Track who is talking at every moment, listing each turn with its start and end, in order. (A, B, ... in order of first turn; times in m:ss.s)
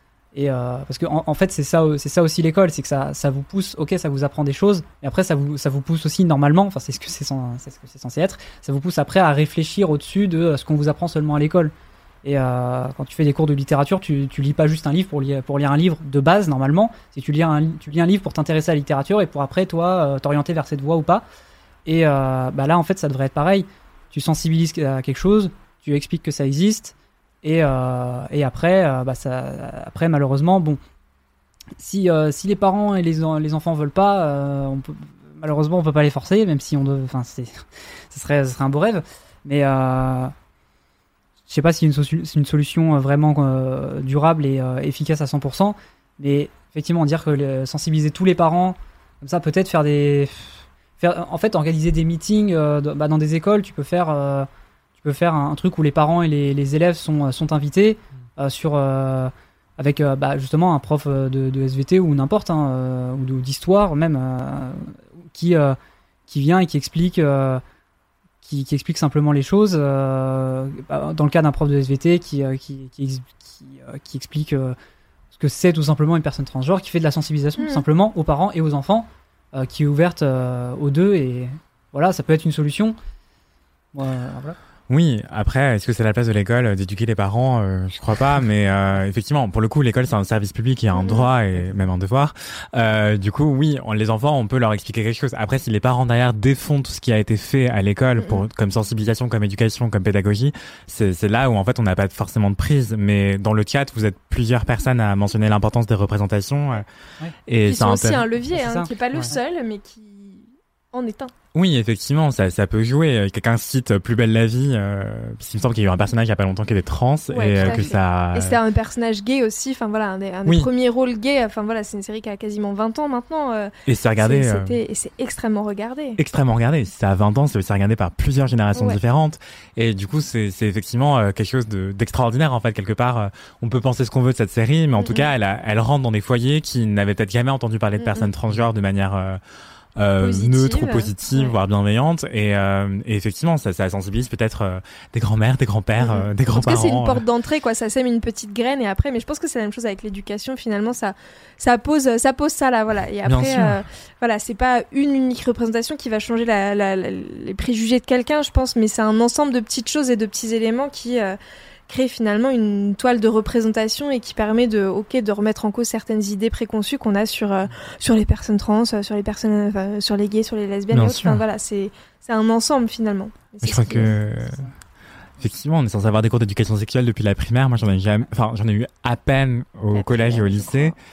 0:00.3-0:11.7 A
0:12.2-0:21.2 A
0:21.9-0:30.8 A
0:31.8-0:40.3 A
0:41.5-0:54.5 A
0:55.0-1:05.8 A
1:06.3-1:07.6 A
1:08.4-1:14.8 A
1:15.3-1:23.0 A
1:17.6-1:17.8 B
1:23.9-1:24.6 A
1:24.9-1:46.8 C
1:30.9-1:31.3 B
1:38.2-1:38.4 B
1:47.5-1:48.3 C
1:47.6-1:51.3 B
1:48.5-1:49.3 A
1:51.5-1:58.6 C
1:57.3-2:06.2 B
2:03.9-2:04.8 C
2:06.2-2:19.4 C
2:15.0-2:15.3 B
2:18.0-2:18.3 B
2:20.0-2:27.3 C
2:20.2-2:21.6 B
2:26.0-2:54.2 B
2:33.3-2:33.8 C
2:50.9-2:51.4 C
2:53.6-2:54.7 C
2:55.4-3:01.0 C
2:59.9-3:01.0 B